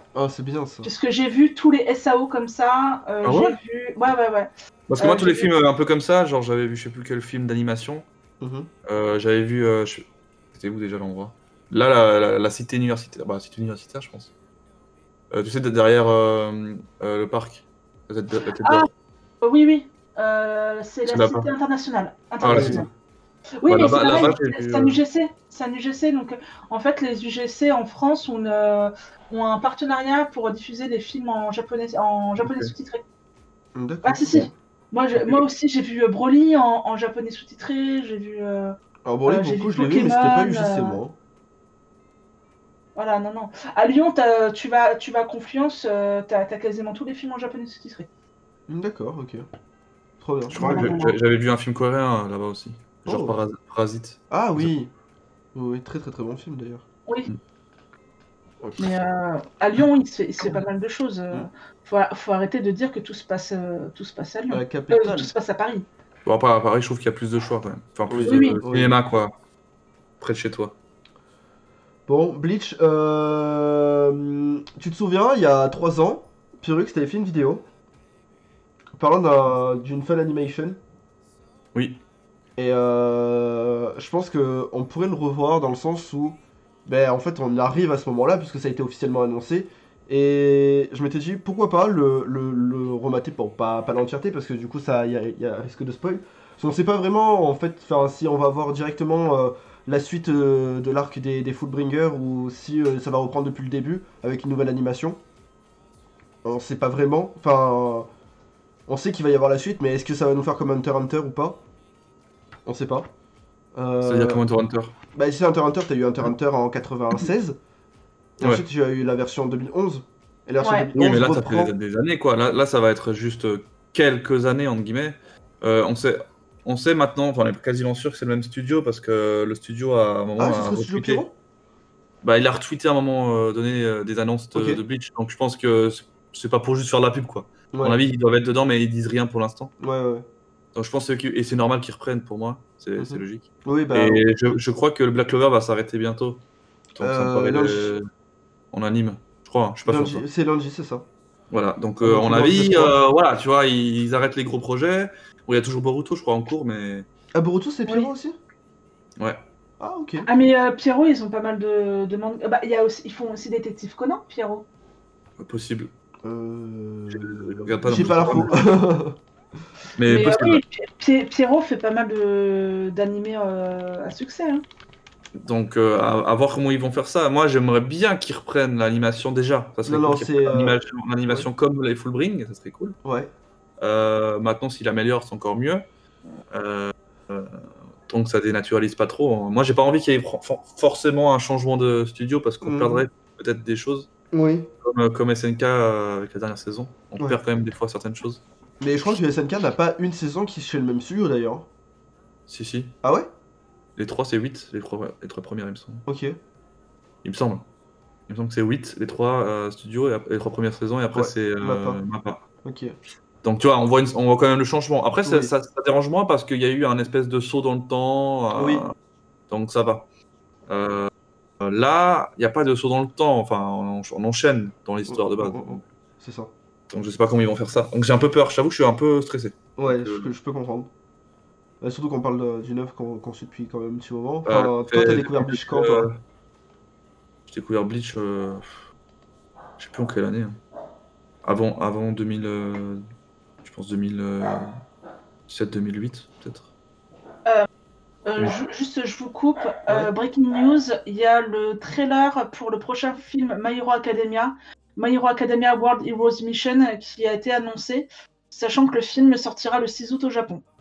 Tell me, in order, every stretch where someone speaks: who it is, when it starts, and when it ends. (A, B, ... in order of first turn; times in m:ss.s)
0:00.1-0:00.9 A
0:00.8-0:05.5 B
0:03.2-0:03.6 C
0:04.9-0:08.0 C
0:08.4-0:08.7 A
0:08.8-0:14.3 C
0:15.3-0:18.9 C
0:18.6-0:18.9 B
0:19.4-0:22.9 B
0:21.1-0:21.5 C
0:22.4-0:22.8 C
0:22.5-0:22.8 A
0:23.6-0:33.0 B
0:23.7-0:25.0 C
0:32.4-0:32.7 C
0:33.7-0:34.5 A
0:34.0-0:41.0 B
0:39.0-0:41.1 A
0:43.0-0:48.1 B
0:48.7-0:49.4 A
0:50.2-0:51.0 A
0:50.5-0:54.7 C
0:50.5-0:51.2 B
0:53.0-0:53.4 A
0:54.3-0:54.9 A
0:55.5-0:56.8 A
0:58.8-1:05.8 B
1:04.5-1:05.3 A
1:06.2-1:09.3 C
1:08.1-1:09.0 A
1:08.2-1:08.6 B
1:10.2-1:10.7 C
1:12.1-1:17.6 A
1:19.0-1:20.8 A
1:21.7-1:22.0 C
1:22.6-1:45.2 A
1:46.4-1:48.1 A
1:48.9-1:51.6 A
1:52.6-1:53.1 A
1:53.7-1:54.4 A
1:54.0-1:54.9 C
1:55.1-1:57.6 A
1:58.4-2:01.7 A
2:00.6-2:00.9 B
2:00.9-2:11.2 C
2:10.4-2:11.3 A
2:12.2-2:19.7 C
2:14.5-2:14.8 A
2:17.7-2:18.0 A
2:19.8-2:20.2 A
2:20.7-2:26.4 C
2:23.0-2:24.2 A
2:26.9-2:28.1 C
2:27.0-2:28.0 A
2:28.7-2:30.2 C
2:29.8-2:31.0 A
2:31.5-2:37.1 C
2:32.0-2:33.0 A
2:37.3-2:38.4 A
2:39.2-2:39.4 C
2:39.8-2:40.3 A
2:40.2-2:44.6 B
2:45.4-2:45.9 C
2:46.2-2:49.2 A
2:47.1-2:48.7 C
2:48.0-2:48.4 B
2:50.0-2:50.6 C
2:50.0-2:54.6 B
2:55.4-3:03.0 C
2:59.8-3:01.5 A
3:03.0-3:03.3 A
3:03.8-3:05.8 C
3:06.5-3:14.1 C
3:12.6-3:13.0 A
3:14.3-3:14.7 A
3:14.8-3:18.4 C
3:18.8-3:21.7 A
3:22.5-3:22.9 C
3:23.0-3:23.3 A
3:24.0-3:26.0 C
3:26.0-3:26.4 A
3:27.2-3:27.6 C
3:28.3-3:32.4 C
3:31.1-3:32.0 A
3:32.6-3:32.9 A
3:33.4-3:38.9 C
3:35.2-3:35.5 A
3:38.5-3:38.8 A
3:39.5-3:40.1 C
3:40.7-3:45.8 C
3:45.1-3:46.5 A
3:46.9-3:50.3 C
3:49.8-3:50.9 A
3:51.8-3:56.1 A
3:54.4-3:56.2 C
3:57.5-3:58.8 C
3:59.8-4:00.6 C
4:01.4-4:03.0 C
4:03.6-4:04.8 C
4:05.5-4:06.7 C
4:08.2-4:20.6 B